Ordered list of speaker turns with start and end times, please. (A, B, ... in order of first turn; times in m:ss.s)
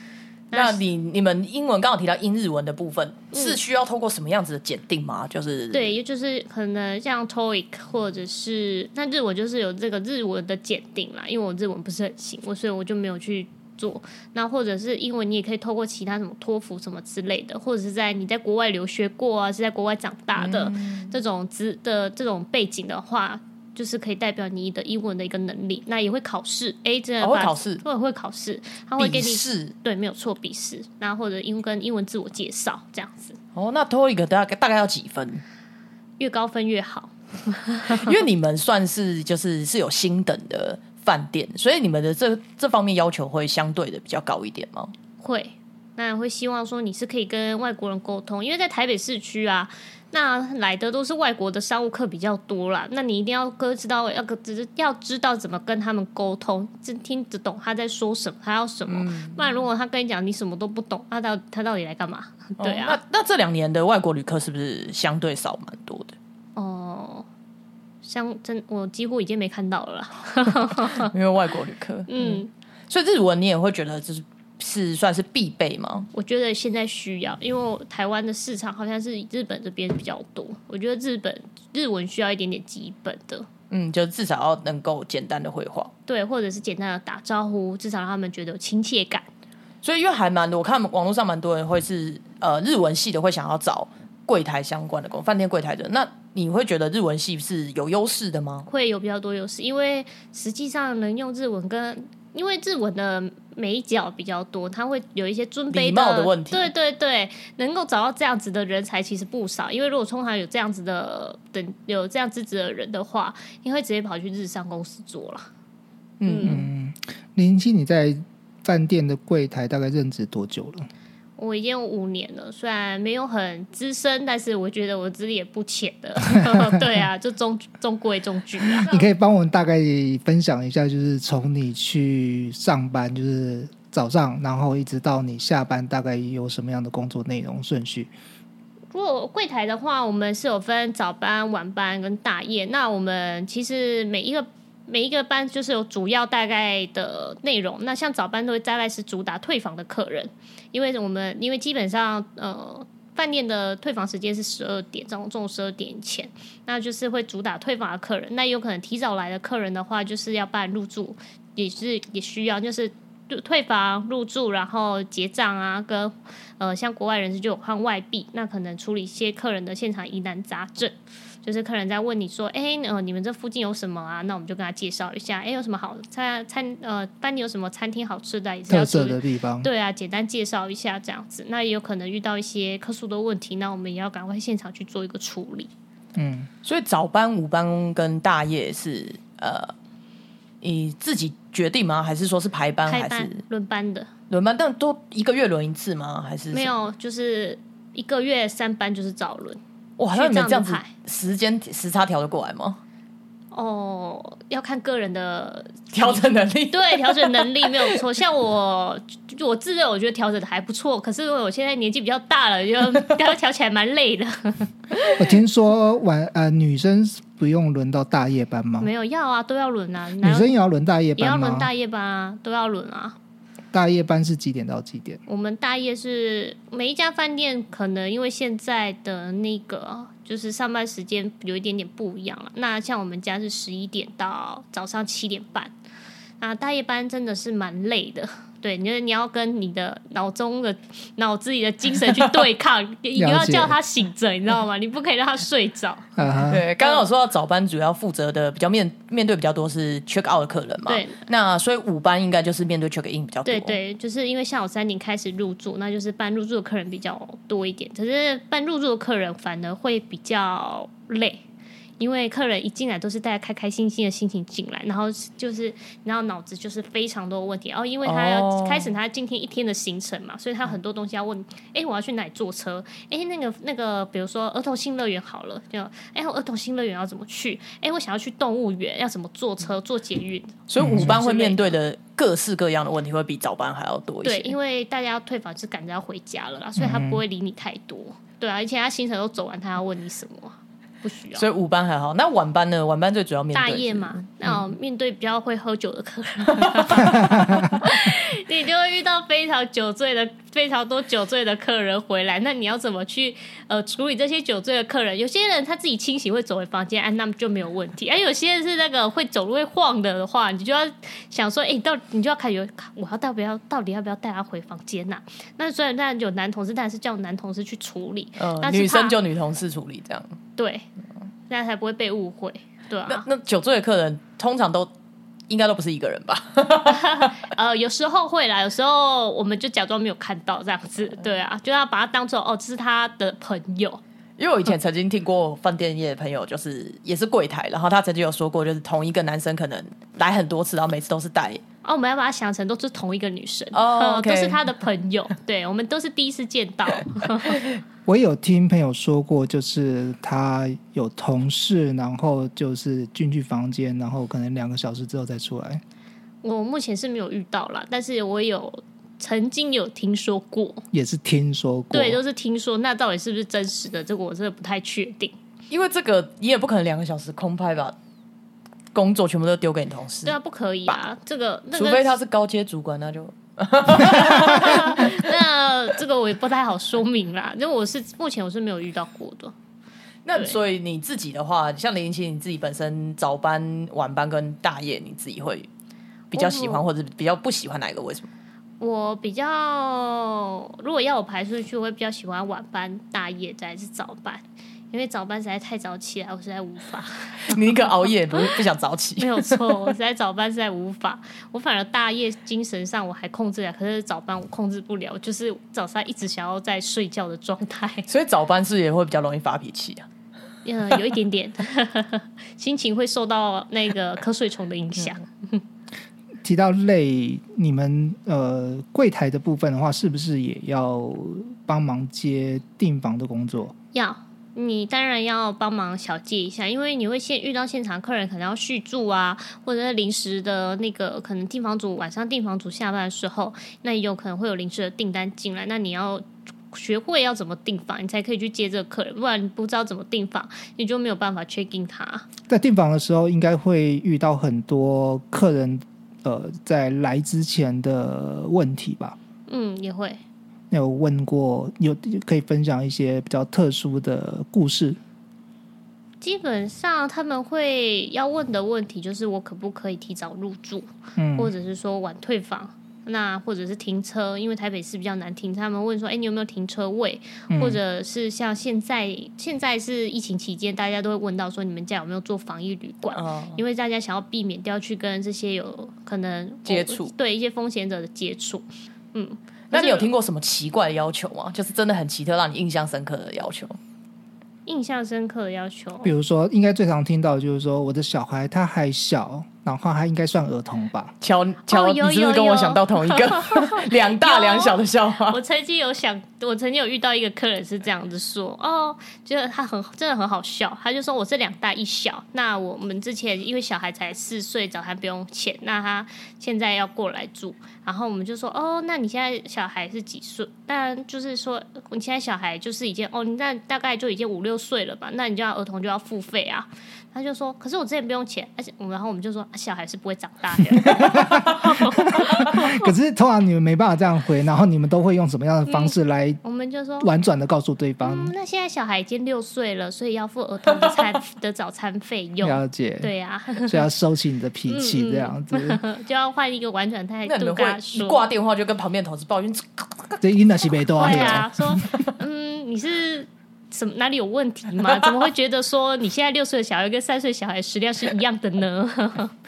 0:00.5-0:00.8 A
0:00.5-0:06.0 B
0:03.3-0:03.6 A
0:05.7-0:33.4 A
0:20.4-0:21.2 B
0:27.2-0:27.8 B
0:29.0-0:29.7 B
0:33.6-0:35.4 B
0:36.2-0:38.2 A
0:37.9-0:44.9 B
0:45.2-1:03.0 A
0:58.9-0:59.5 B
1:02.6-1:06.2 B
1:06.6-1:07.3 A
1:08.0-1:11.1 A
1:10.9-1:16.1 B
1:12.1-1:12.5 A
1:16.1-1:23.5 A
1:23.7-1:25.9 B
1:26.1-1:29.3 A
1:29.8-1:38.7 B
1:38.7-1:55.5 A
1:45.7-1:46.7 B
1:56.2-1:56.7 B
1:56.2-1:56.6 A
1:56.4-2:00.9 C
2:01.4-2:09.1 A
2:08.8-2:18.1 C
2:18.9-3:05.7 A
2:58.7-2:59.7 C
3:06.2-3:06.5 C
3:06.6-3:09.7 B
3:10.6-3:13.4 B
3:12.9-3:14.1 A
3:14.3-3:16.7 B
3:16.5-3:19.6 A
3:20.0-3:22.8 B
3:20.1-3:20.9 A
3:23.5-3:34.7 A
3:25.9-3:28.0 B
3:35.2-3:38.9 C
3:38.8-3:40.5 A
3:40.2-3:41.7 C
3:41.2-3:43.2 A
3:43.7-3:45.2 C
3:45.3-3:55.7 A
3:56.4-4:07.1 A
4:03.2-4:03.8 C
4:06.2-4:06.6 C
4:06.5-4:13.8 B
4:10.9-4:11.2 A
4:13.5-4:21.4 A
4:22.0-4:41.8 A
4:28.0-4:28.9 B
4:40.7-4:44.5 B
4:40.8-4:41.2 C
4:44.2-4:51.5 A
4:46.8-4:47.2 C
4:51.4-4:54.6 B
4:53.5-5:19.2 A
4:56.6-4:57.0 B
4:57.2-4:57.6 C
5:18.4-5:20.4 B
5:20.6-5:20.9 A
5:21.5-5:23.3 A
5:23.1-5:24.9 B
5:25.5-5:27.4 B
5:26.8-5:34.0 A
5:34.4-5:41.6 B
5:41.8-5:47.6 A
5:43.7-5:44.6 B
5:48.1-5:55.8 C
5:56.4-6:00.8 A
6:00.9-6:02.2 C
6:01.9-6:05.4 A
6:05.7-6:08.0 B
6:08.9-6:10.4 B
6:10.2-6:12.2 A
6:11.7-6:15.2 B
6:14.0-6:19.5 A
6:20.2-6:25.7 B
6:26.3-6:28.3 B
6:26.3-6:26.8 A
6:28.8-6:37.6 A
6:37.5-6:39.9 B
6:39.2-6:48.1 A
6:48.1-6:50.1 B
6:50.6-6:55.6 A
6:56.4-7:03.7 C
7:03.9-7:22.3 A
7:22.5-7:29.2 C
7:29.5-7:30.2 A
7:30.7-7:35.0 C
7:36.2-8:00.1 A
7:41.2-7:41.5 C
7:47.5-7:47.8 C
7:53.1-7:53.6 B
7:56.7-7:57.1 B
7:59.7-8:03.8 B
8:04.7-8:06.1 A
8:06.0-8:11.1 C
8:11.2-8:15.4 B
8:11.7-8:42.9 A
8:40.8-8:46.4 C
8:45.7-8:47.1 A
8:47.0-8:48.3 C
8:48.0-8:53.8 A
8:52.4-8:55.8 C
8:54.7-8:58.3 A
8:57.3-9:00.2 B
9:00.2-9:01.8 C
9:01.0-9:09.3 A
9:01.0-9:01.4 B